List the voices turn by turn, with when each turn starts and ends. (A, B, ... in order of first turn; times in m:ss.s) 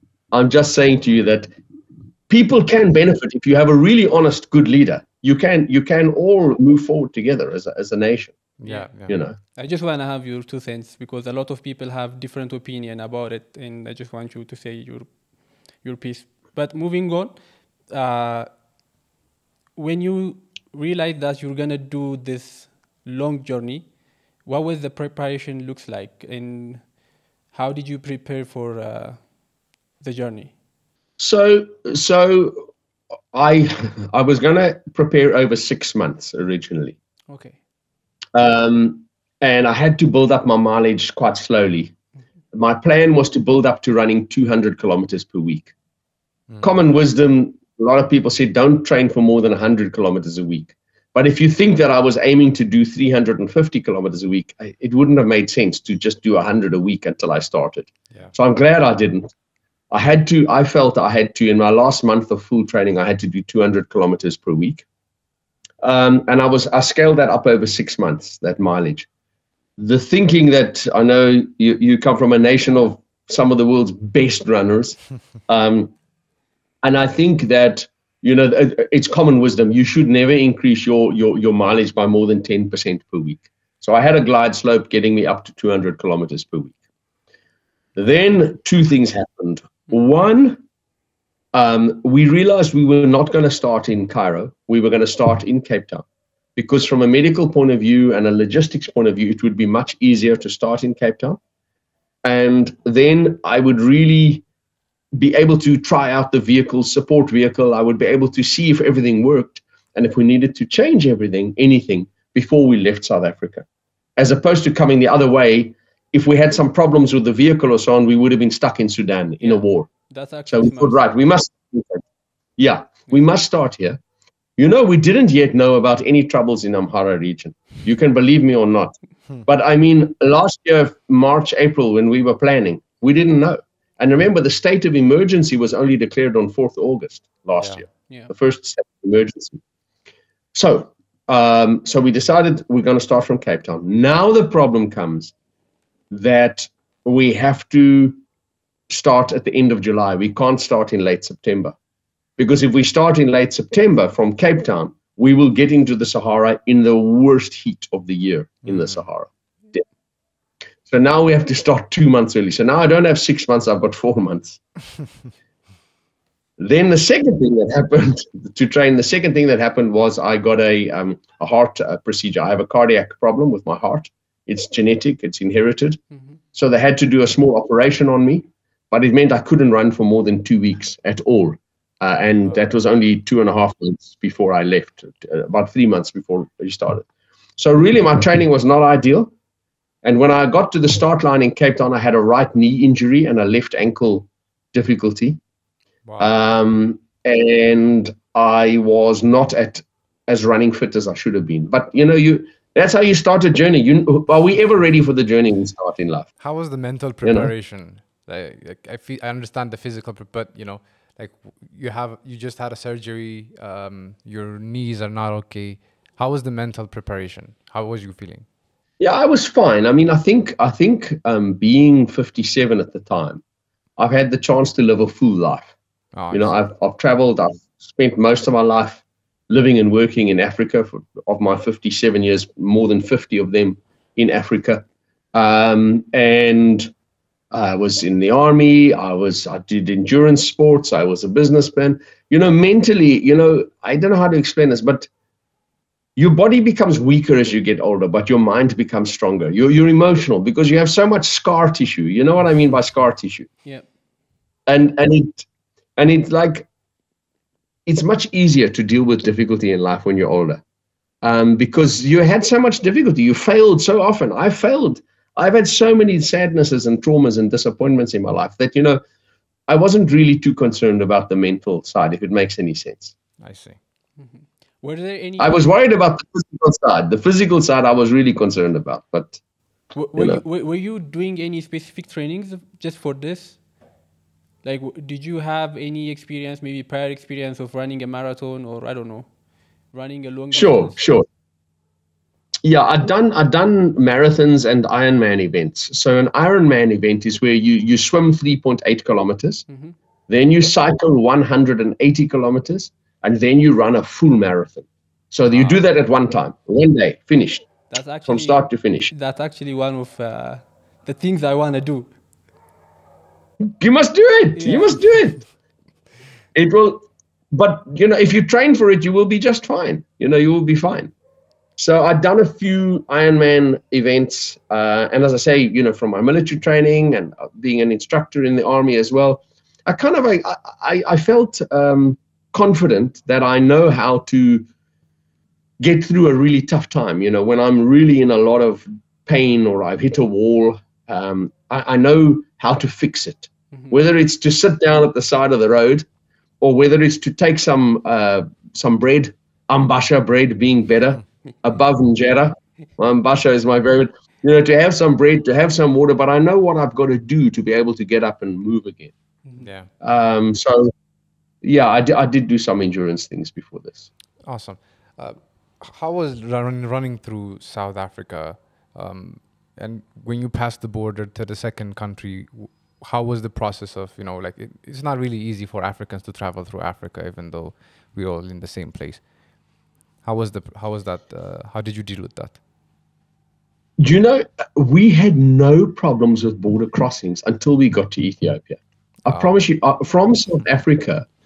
0:00.3-0:01.5 A
0:02.3-0:08.4 A
0:08.6-0:09.1 B
0:08.6-0:08.9 C
0:09.1-0:09.4 A
0:09.6-0:18.5 C
0:19.8-0:23.9 C
0:24.4-0:27.0 C
0:27.5-0:29.4 C
0:30.0-0:30.5 C
0:31.2-0:32.7 A
0:33.3-0:37.0 A
0:37.3-0:37.6 C
0:38.4-0:41.9 A
0:42.5-0:45.7 A
0:46.5-0:46.7 B
0:46.6-0:59.3 A
0:59.9-1:04.8 A
1:05.8-1:09.1 A
1:09.8-1:15.9 A
1:16.8-1:26.8 A
1:28.0-1:30.6 A
1:31.5-1:36.0 A
1:36.6-1:41.4 A
1:42.2-1:44.4 A
1:45.2-1:53.6 A
1:54.2-1:59.9 A
1:59.4-2:01.1 C
2:00.5-2:02.0 A
2:02.6-2:04.0 A
2:04.6-2:19.6 A
2:20.5-2:25.3 A
2:26.1-2:28.2 A
2:28.9-2:31.8 A
2:32.4-2:39.8 A
2:38.6-2:39.0 B
2:40.9-2:44.6 A
2:46.6-2:56.0 A
2:56.1-2:56.4 C
2:56.5-3:07.1 A
3:07.6-3:09.3 A
3:10.0-3:15.4 A
3:16.1-3:16.4 B
3:16.2-3:26.3 A
3:26.4-3:38.5 B
3:27.2-3:27.5 A
3:39.0-3:43.4 A
3:44.0-3:45.7 A
3:46.1-3:46.5 B
3:46.3-3:56.9 A
3:57.5-4:05.1 A
4:06.2-4:13.5 A
4:14.7-4:15.5 A
4:16.0-4:16.7 A
4:17.9-4:20.6 A
4:21.2-4:29.0 A
4:29.7-4:33.1 A
4:33.4-4:33.8 B
4:34.2-4:35.6 C
4:35.4-4:39.4 A
4:39.9-4:43.6 C
4:40.2-4:40.4 A
4:44.6-4:49.3 C
4:49.9-4:51.1 C
4:50.5-4:51.2 A
4:52.6-4:59.6 A
4:59.7-5:00.0 C
5:00.3-5:07.7 A
5:05.5-5:05.8 B
5:07.9-5:12.1 C
5:08.3-5:09.1 A
5:13.8-5:15.4 A
5:14.6-5:15.4 C
5:16.6-5:21.1 A
5:21.8-5:34.7 A
5:35.8-5:46.1 A
5:46.6-5:59.1 A
5:59.6-5:59.9 B
6:00.0-6:00.9 A
6:01.6-6:04.1 A
6:04.4-6:19.3 B
6:20.2-6:22.6 B
6:24.0-6:31.3 A
6:29.3-6:29.5 B